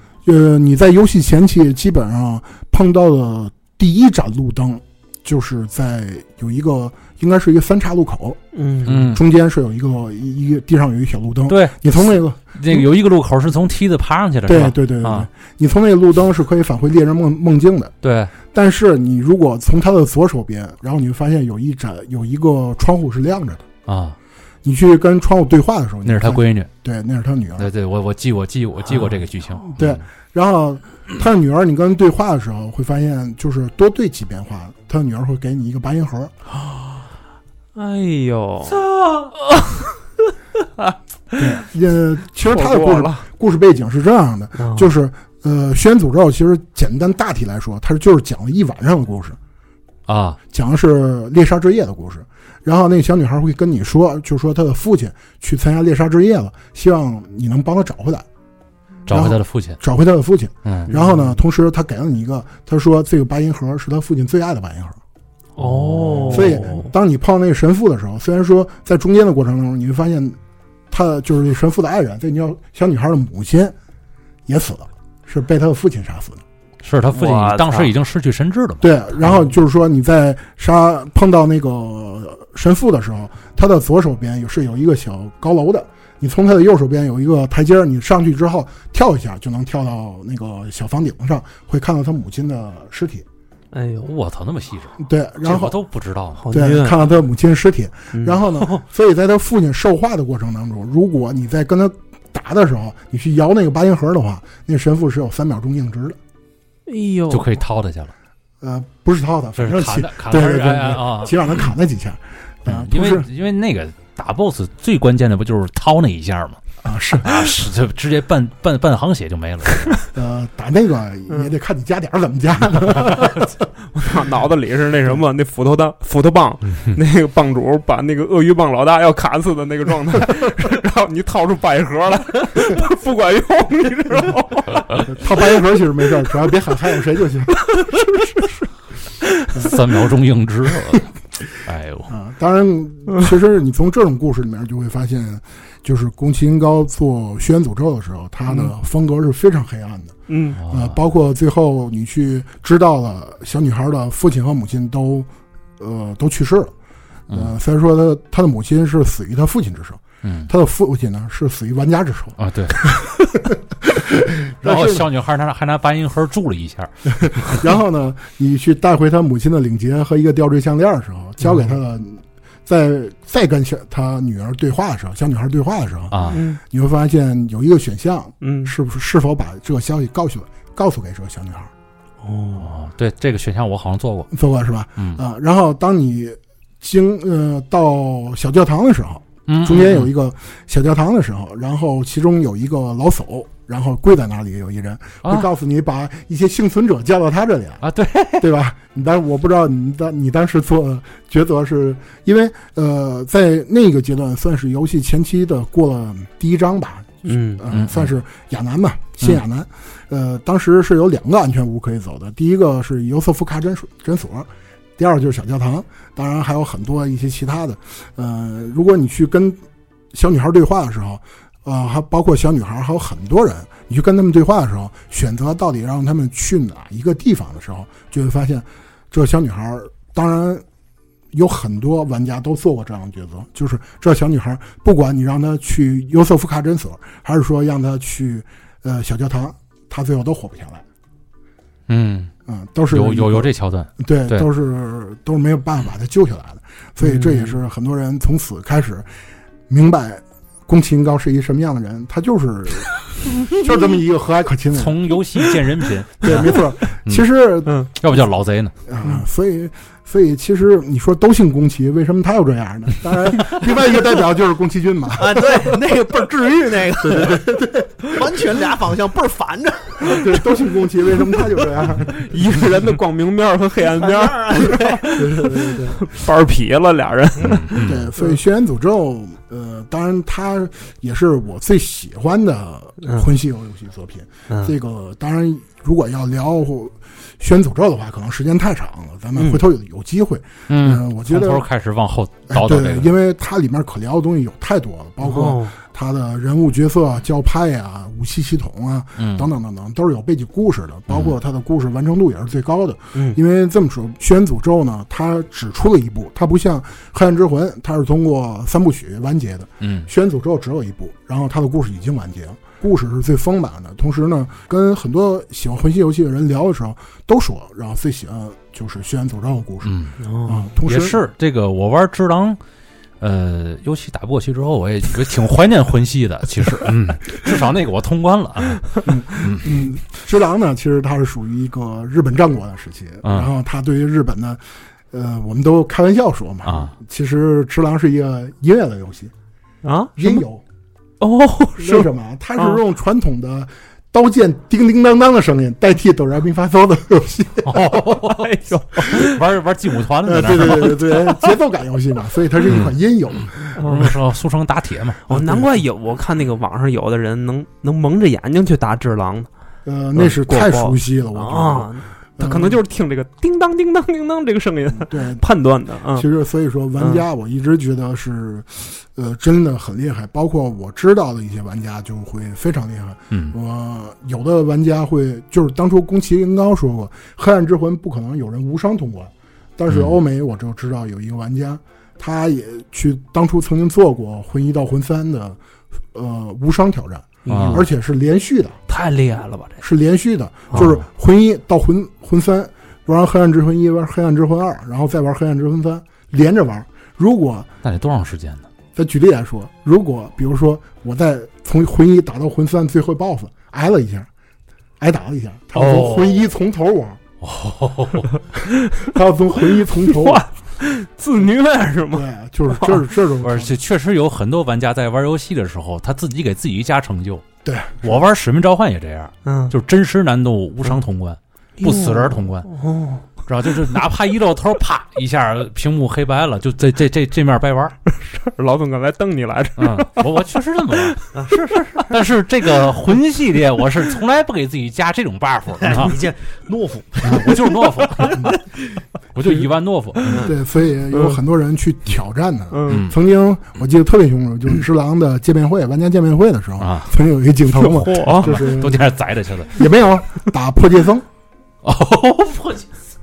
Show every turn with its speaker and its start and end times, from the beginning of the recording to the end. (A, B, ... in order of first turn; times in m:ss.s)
0:00.2-0:12.9 A
0:08.5-0:09.0 B
0:08.9-0:09.2 C
0:11.5-0:15.3 C
0:14.5-0:17.9 A
0:18.0-0:18.3 C
0:18.5-0:23.6 A
0:23.9-0:24.2 C
0:24.6-0:27.7 A
0:26.0-0:26.7 C
0:27.6-0:30.0 C
0:29.6-0:36.3 A
0:37.8-0:39.9 B
0:40.8-0:41.5 B
0:41.4-0:49.4 A
0:42.4-0:43.2 B
0:44.6-0:44.9 B
0:50.1-0:50.4 C
0:50.5-0:58.3 A
0:59.1-0:59.8 C
0:59.1-1:05.0 A
1:00.6-1:00.9 C
1:00.9-1:01.4 B
1:05.6-1:06.6 C
1:05.6-1:06.9 B
1:06.3-1:10.4 A
1:10.9-1:13.8 A
1:14.5-1:16.4 A
1:16.8-1:18.9 C
1:17.1-1:17.9 B
1:18.8-1:33.2 A
1:33.7-1:34.1 B
1:34.0-1:36.4 C
1:35.0-1:35.8 A
1:36.4-1:37.0 B
1:36.5-1:46.2 A
1:38.1-1:38.4 B
1:46.9-1:47.5 B
1:47.3-1:48.1 C
1:48.6-1:53.3 A
1:49.6-1:51.5 C
1:52.7-1:56.6 C
1:56.8-1:57.3 A
1:57.2-2:00.0 C
2:00.1-2:03.6 A
2:03.9-2:15.4 B
2:15.1-2:17.7 A
2:17.7-2:18.3 B
2:19.6-2:21.0 C
2:21.6-2:22.1 C
2:22.1-2:36.7 A
2:30.3-2:30.6 B
2:30.6-2:31.0 C
2:37.3-2:45.1 A
2:40.2-2:40.5 C
2:42.4-2:42.8 C
2:44.6-2:47.6 C
2:47.2-3:01.7 A
2:56.1-2:56.4 C
2:56.3-2:56.6 B
2:58.4-2:58.7 B
3:02.2-3:02.7 B
3:02.6-3:04.3 C
3:04.3-3:17.8 A
3:09.5-3:10.1 C
3:15.2-3:15.5 C
3:17.8-3:18.5 C
3:18.4-3:39.6 A
3:27.2-3:27.7 B
3:27.7-3:28.1 C
3:40.1-3:50.6 A
3:51.3-4:00.8 A
4:01.9-4:02.3 C
4:02.5-4:09.1 A
4:02.9-4:04.5 C
4:07.0-4:07.6 B
4:09.7-4:15.2 A
4:14.7-4:17.3 C
4:16.2-4:17.8 A
4:18.0-4:18.7 C
4:18.9-4:25.8 A
4:25.2-4:27.5 D
4:27.0-4:28.1 A
4:28.1-4:30.4 D
4:30.1-4:32.2 A
4:32.1-4:38.4 B
4:33.9-4:35.6 D
4:35.2-4:36.0 A
4:37.5-4:38.1 C
4:37.8-4:51.6 A
4:43.0-4:43.3 B
4:50.7-4:53.2 C
4:52.5-5:21.2 A
4:55.2-4:55.8 B
4:59.2-4:59.5 C
5:01.1-5:01.4 C
5:09.8-5:10.1 C
5:19.8-5:20.2 C
5:20.2-5:20.7 B
5:20.8-5:22.6 C
5:23.2-5:29.7 C
5:29.0-5:39.3 A
5:33.2-5:33.5 C
5:36.6-5:36.9 C
5:39.8-5:40.4 B
5:40.2-5:40.6 A
5:41.2-5:42.8 B
5:41.8-5:47.9 A
5:47.6-5:51.0 C
5:48.2-5:49.4 B
5:50.2-5:54.1 A
5:52.6-5:53.0 C
5:53.6-5:55.2 C
5:53.8-5:54.1 B
5:55.3-5:59.5 B
5:55.3-5:55.7 A
5:59.8-6:02.8 A
6:00.2-6:06.3 B
6:05.1-6:05.4 A
6:06.1-6:25.6 A
6:19.9-6:20.2 C
6:26.1-6:28.8 A
6:27.5-6:27.9 B
6:27.5-6:27.8 C
6:28.9-6:29.8 B
6:29.8-6:37.7 A
6:30.7-6:31.0 C
6:37.8-6:38.7 C
6:39.0-6:44.3 A
6:45.0-6:47.2 A
6:45.8-6:46.4 B
6:47.4-6:48.3 C
6:49.0-6:50.5 A
6:50.0-6:53.0 B
6:52.1-6:53.8 A
6:53.4-6:57.4 C
6:57.6-6:58.2 A
6:58.0-7:02.7 C
6:59.4-6:59.7 B
7:01.8-7:03.2 B
7:03.5-7:08.0 C
7:08.1-7:10.3 B
7:09.8-7:11.2 C
7:11.3-7:12.2 D
7:12.1-7:16.2 C
7:15.8-7:18.4 D
7:17.2-7:17.5 A
7:17.2-7:18.5 C
7:18.2-7:18.6 A
7:19.4-7:20.5 C
7:20.4-7:29.1 A
7:22.7-7:23.1 B
7:22.9-7:23.1 C
7:26.8-7:27.1 C
7:27.7-7:28.6 B
7:28.4-7:29.8 C
7:29.7-7:31.3 A
7:31.8-7:32.9 C